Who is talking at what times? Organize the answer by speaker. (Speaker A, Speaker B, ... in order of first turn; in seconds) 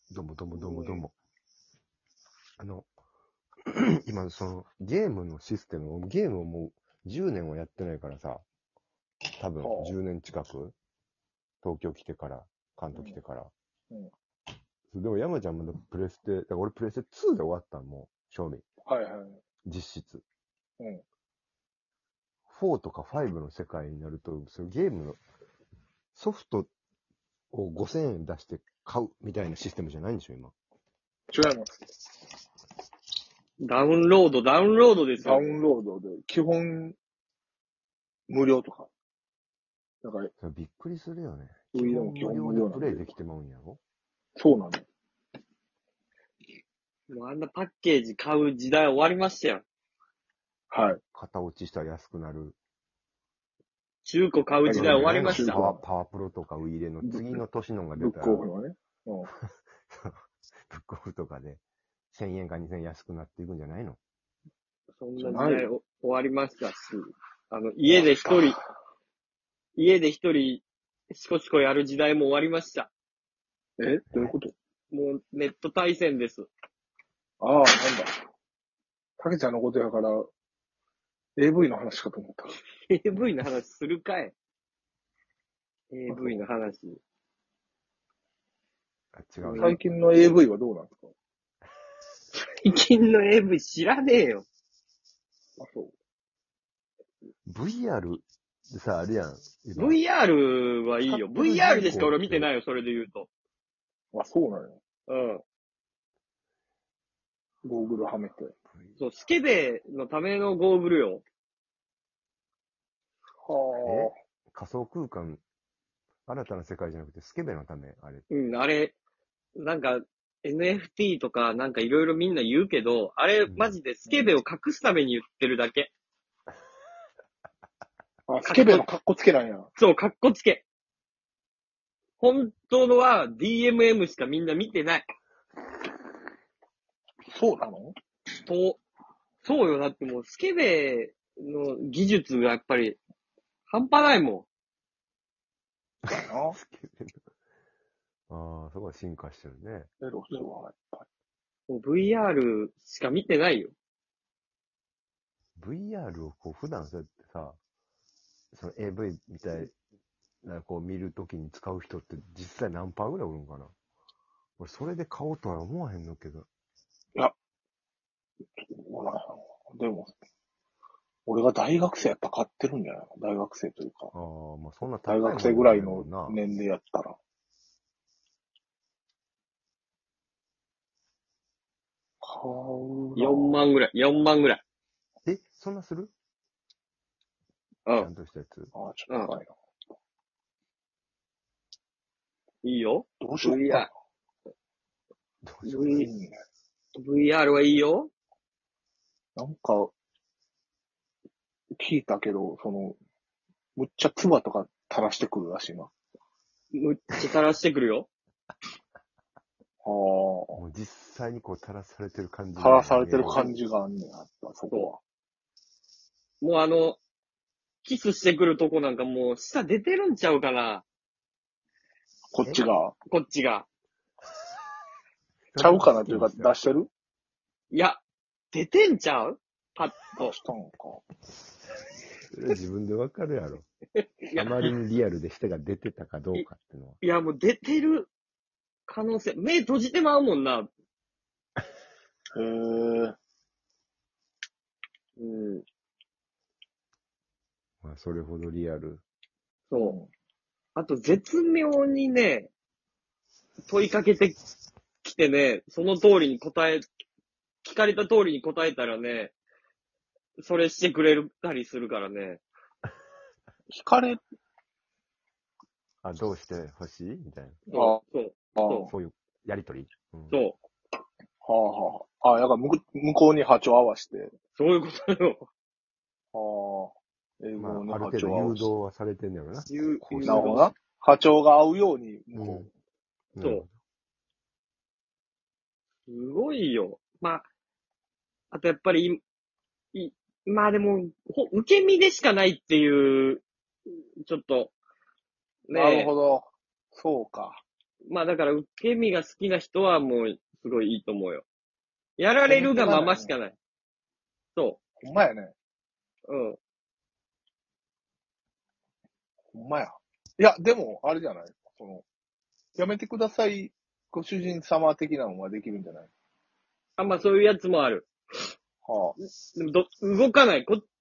Speaker A: 0.1-1.1, 2.6-2.9, 3.7-8.4, 9.4-10.8, 11.6-13.5, 14.9-18.7, 19.7-20.2, 22.5-25.2, 26.1-26.7, 27.5-30.5, 40.4-43.8, 51.1-52.5, 54.7-58.5, 59.9-64.0, 89.1-89.8, 97.5-100.0, 101.0-102.5, 108.7-109.0, 113.8-115.4, 116.3-118.3, 123.5-123.8, 146.1-147.2, 148.3-149.9, 155.6-157.6, 158.5-159.8, 160.4-163.7, 164.6-166.5, 174.1-176.4, 185.2-186.1, 187.9-188.7, 195.4-196.0, 210.6-213.5, 225.5-226.5, 232.3-233.7, 234.3-237.0, 247.8-249.0, 266.0-267.6, 268.9-270.4, 277.6-280.6, 282.3-282.7, 283.3-283.7
Speaker B: 0.5-1.0, 9.6-10.0, 18.9-19.4, 31.3-31.8, 35.2-37.0, 38.3-38.9, 40.0-40.3, 41.7-43.1, 44.4-44.9, 50.7-51.0, 54.6-55.8, 57.0-57.4, 58.0-59.3, 65.2-65.7, 67.8-68.6, 73.8-74.5, 77.4-78.1, 79.2-80.3, 81.4-82.5, 86.1-86.4, 89.5-91.1, 95.6-95.9, 104.1-104.8, 107.6-108.5, 113.5-114.2, 124.1-124.4, 128.3-129.7, 137.3-137.9, 146.2-146.6, 150.0-151.1, 168.6-170.1, 171.3-174.1, 175.1-177.2, 182.2-183.6, 188.7-189.5, 193.2-193.9, 196.0-196.3, 199.4-199.9, 201.8-203.0, 203.8-205.9, 209.8-210.6, 212.6-215.0, 222.3-223.0, 225.6-226.9, 230.2-231.0, 242.4-243.2, 249.8-250.1, 263.7-264.2, 267.7-268.0, 268.6-268.9, 271.4-274.3, 276.3-278.7, 280.2-282.7, 295.7-297.6, 302.4-303.3, 305.0-305.5, 309.5-312.1, 312.8-316.1, 318.8-319.2
Speaker C: 33.6-35.6, 47.1-49.6, 54.0-55.6, 65.0-68.6, 69.8-72.9, 74.9-76.5, 82.9-84.3, 85.9-87.0, 89.4-89.8, 92.3-94.5, 99.8-103.3, 105.1-105.4, 109.0-111.2, 118.3-119.0, 119.6-125.9, 128.5-128.8, 129.8-130.7, 132.2-135.1, 138.5-138.8, 139.4-143.0, 143.7-144.5, 151.7-153.7, 183.2-184.6, 192.6-193.9, 195.7-196.1, 196.9-198.1, 206.7-208.1, 216.4-217.0, 217.8-220.8, 223.1-223.7, 227.7-228.0, 228.5-230.3, 234.0-234.6, 237.0-238.1, 238.9-240.7, 245.2-245.6, 249.7-250.0, 250.8-252.5, 253.7-254.4, 255.0-256.9, 257.6-259.3, 260.4-262.4, 267.7-268.9, 270.3-270.6, 274.6-275.5, 279.7-280.7, 286.1-287.4, 288.5-289.2, 289.9-293.4, 294.2-294.7, 295.7-296.1, 298.1-301.4, 302.2-303.6, 306.3-306.6, 317.0-318.5, 319.4-320.8